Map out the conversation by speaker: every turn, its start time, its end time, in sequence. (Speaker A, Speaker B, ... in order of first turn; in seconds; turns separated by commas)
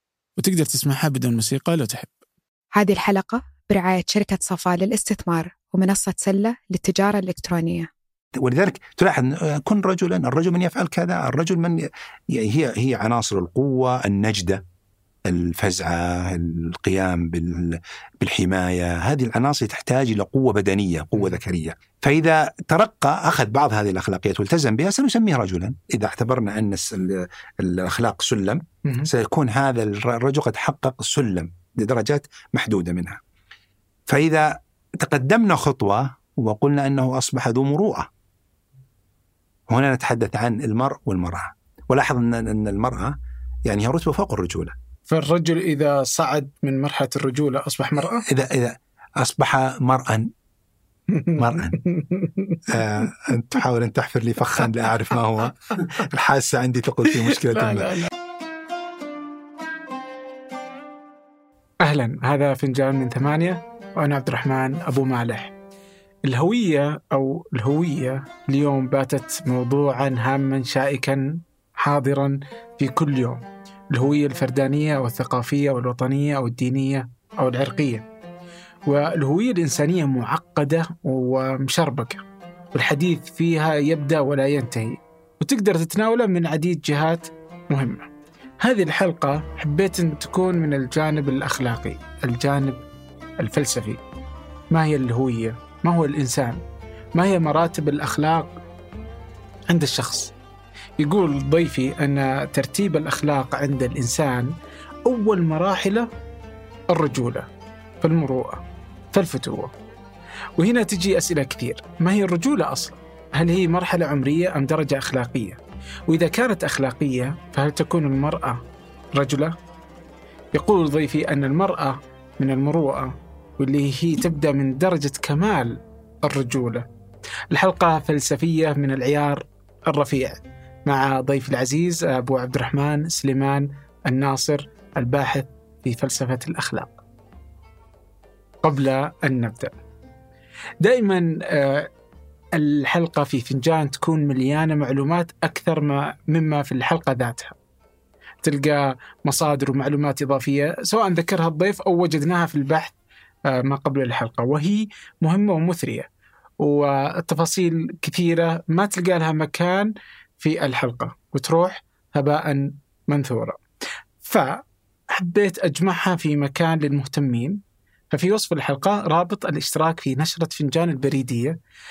Speaker A: 0.4-2.1, Speaker B: 2.8-7.9, Speaker C: 8.4-14.6, Speaker C: 15.3-33.2, Speaker C: 34.1-38.1, Speaker C: 39.7-44.8, Speaker A: 45.1-48.2, Speaker C: 48.3-50.3, Speaker A: 51.1-52.7, Speaker C: 51.4-51.8, Speaker C: 52.7-58.0, Speaker A: 57.3-58.1, Speaker A: 61.8-65.5, Speaker A: 66.2-78.0, Speaker A: 78.9-88.1, Speaker A: 88.6-92.8, Speaker A: 93.4-94.0, Speaker A: 94.7-96.6, Speaker A: 97.1-98.6, Speaker A: 99.7-100.3, Speaker A: 101.0-104.5, Speaker A: 105.0-106.1, Speaker A: 106.9-107.5, Speaker A: 108.0-108.6, Speaker A: 109.1-109.7, Speaker A: 110.6-118.6, Speaker A: 119.2-119.6, Speaker A: 120.5-126.9, Speaker A: 127.5-137.0, Speaker A: 138.6-139.7, Speaker A: 140.8-141.9, Speaker A: 142.5-147.6, Speaker A: 148.4-152.9, Speaker A: 153.5-156.1, Speaker A: 156.6-163.6, Speaker A: 164.2-167.6, Speaker A: 168.1-171.6